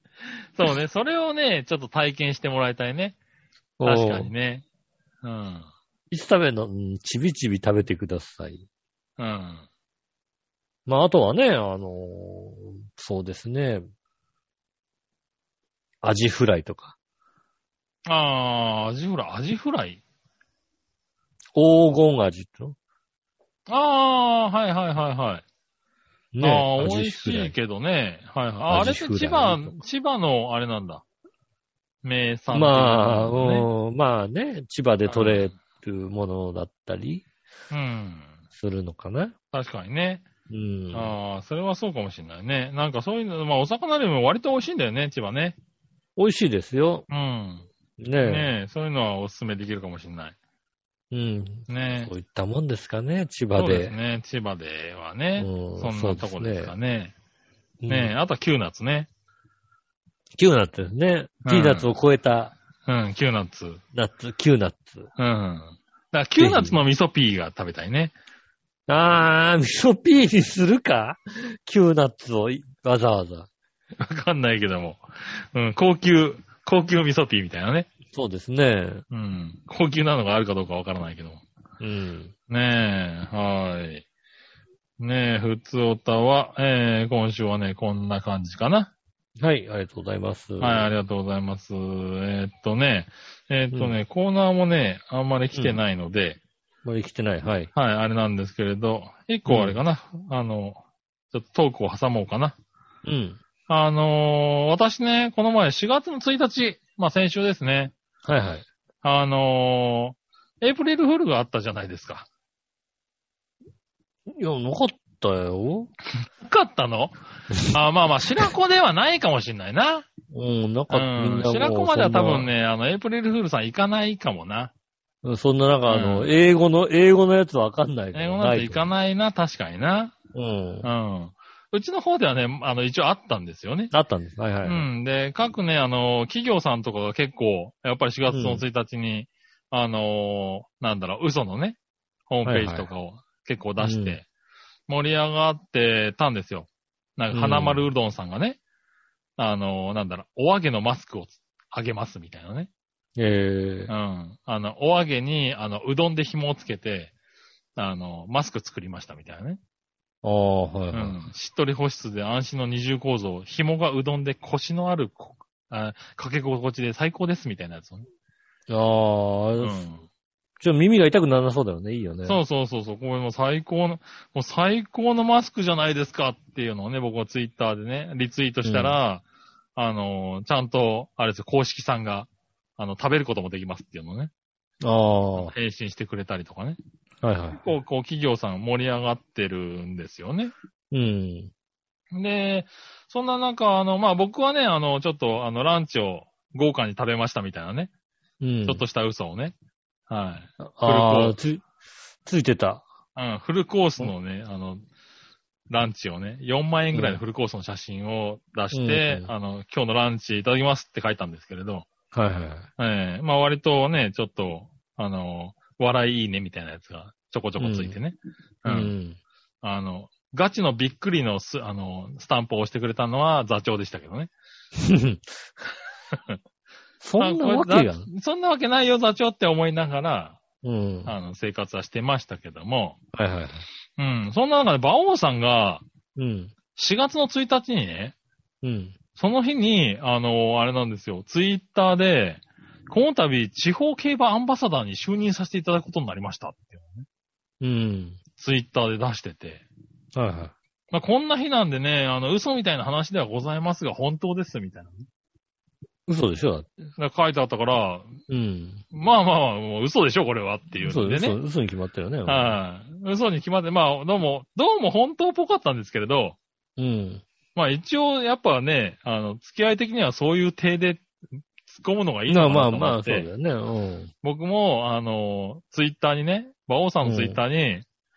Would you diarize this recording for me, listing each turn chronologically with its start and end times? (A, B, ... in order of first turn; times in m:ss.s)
0:00.5-0:03.2 A
0:03.8-0:04.3 B
0:03.8-0:04.6 A
0:05.2-0:05.7 A
0:06.1-0:08.6 B
0:09.2-0:09.6 A
0:10.9-0:13.8 B
0:16.0-0:16.9 B
0:18.1-0:20.0 A
0:21.6-0:22.8 B
0:23.7-0:25.4 A
0:26.3-0:27.5 B
0:26.4-0:31.0 A
0:28.7-0:29.8 B
0:32.0-0:33.7 A
0:32.5-0:37.2 B
0:35.1-0:35.5 A
0:37.7-0:38.3 A
0:38.5-0:39.4 B
0:39.5-0:40.2 A
0:40.5-0:41.2 B
0:40.9-0:45.6 A
0:46.2-0:47.0 B
0:47.1-0:47.7 A
0:48.0-0:48.5 B
0:48.2-0:50.4 A
0:51.1-0:53.9 B
0:51.7-0:52.1 A
0:53.6-0:57.1 A
0:55.4-0:56.7 B
0:57.8-0:58.1 B
0:57.9-0:59.1 A
1:00.4-1:02.5 B
1:01.4-1:01.9 A
1:02.9-1:03.8 A
1:03.9-1:05.1 B
1:05.2-1:08.1 A
1:06.4-1:06.8 B
1:08.9-1:13.5 B
1:14.0-1:17.9 A
1:18.1-1:19.0 B
1:19.1-1:21.4 A
1:21.8-1:22.3 B
1:22.5-1:24.0 A
1:25.0-1:28.9 A
1:29.4-1:30.9 B
1:30.6-1:36.4 A
1:33.7-1:34.0 B
1:35.5-1:35.8 B
1:36.8-1:37.7 B
1:37.8-1:40.8 A
1:39.5-1:39.8 B
1:41.3-1:42.6 A
1:43.0-1:43.4 B
1:43.7-1:47.9 A
1:48.2-1:48.6 B
1:49.0-1:52.3 A
1:54.4-1:55.9 B
1:56.4-2:00.1 A
2:00.3-2:02.5 B
2:00.9-2:04.7 A
2:05.2-2:08.9 B
2:05.9-2:06.3 A
2:08.1-2:10.2 A
2:10.3-2:10.9 B
2:10.8-2:13.9 A
2:13.9-2:14.9 B
2:14.6-2:21.8 A
2:18.3-2:18.6 B
2:22.3-2:24.2 A
2:22.4-2:22.9 B
2:23.8-2:24.2 B
2:24.9-2:28.6 A
2:27.3-2:27.8 B
2:29.4-2:32.7 A
2:33.2-2:33.9 B
2:33.9-2:37.1 A
2:37.8-2:39.6 A
2:40.2-2:41.2 B
2:40.9-2:48.1 A
2:48.7-2:49.8 B
2:49.6-2:50.0 A
2:50.6-2:52.4 B
2:52.3-2:59.2 A
2:58.6-2:59.0 B
2:59.8-3:04.3 A
3:04.8-3:05.5 B
3:05.4-3:06.8 A
3:07.2-3:07.6 B
3:07.6-3:10.5 A
3:10.9-3:11.5 B
3:12.1-3:17.9 A
3:18.4-3:18.8 B
3:18.7-3:19.6 A
3:20.1-3:21.4 A
3:20.6-3:21.6 B
3:22.2-3:22.8 B
3:23.2-3:24.8 A
3:25.7-3:31.9 A
3:26.9-3:27.2 B
3:28.7-3:29.3 B
3:32.1-3:32.7 B
3:32.8-3:38.9 A
3:37.6-3:38.0 B
3:38.7-3:39.2 B
3:39.6-3:44.3 A
3:44.8-3:45.4 B
3:46.1-3:46.4 A
3:47.0-3:48.1 B
3:47.2-3:50.4 A
3:50.6-3:51.2 B
3:51.1-3:53.0 A
3:53.1-3:53.7 B
3:54.0-3:55.8 A
3:56.2-3:56.5 B
3:56.8-3:58.2 A
3:58.6-3:59.0 B
3:59.2-4:07.1 A
4:07.6-4:08.2 B
4:08.4-4:09.6 A
4:10.2-4:10.5 B
4:10.9-4:15.1 A
4:16.1-4:16.7 B
4:17.0-4:18.2 A
4:18.3-4:18.8 B
4:18.9-4:21.4 A
4:20.8-4:22.6 B
4:22.3-4:26.4 A
4:26.8-4:27.2 B
4:27.6-4:31.1 A
4:31.7-4:33.3 A
4:32.3-4:34.1 B
4:34.2-4:37.8 A
4:37.0-4:37.4 B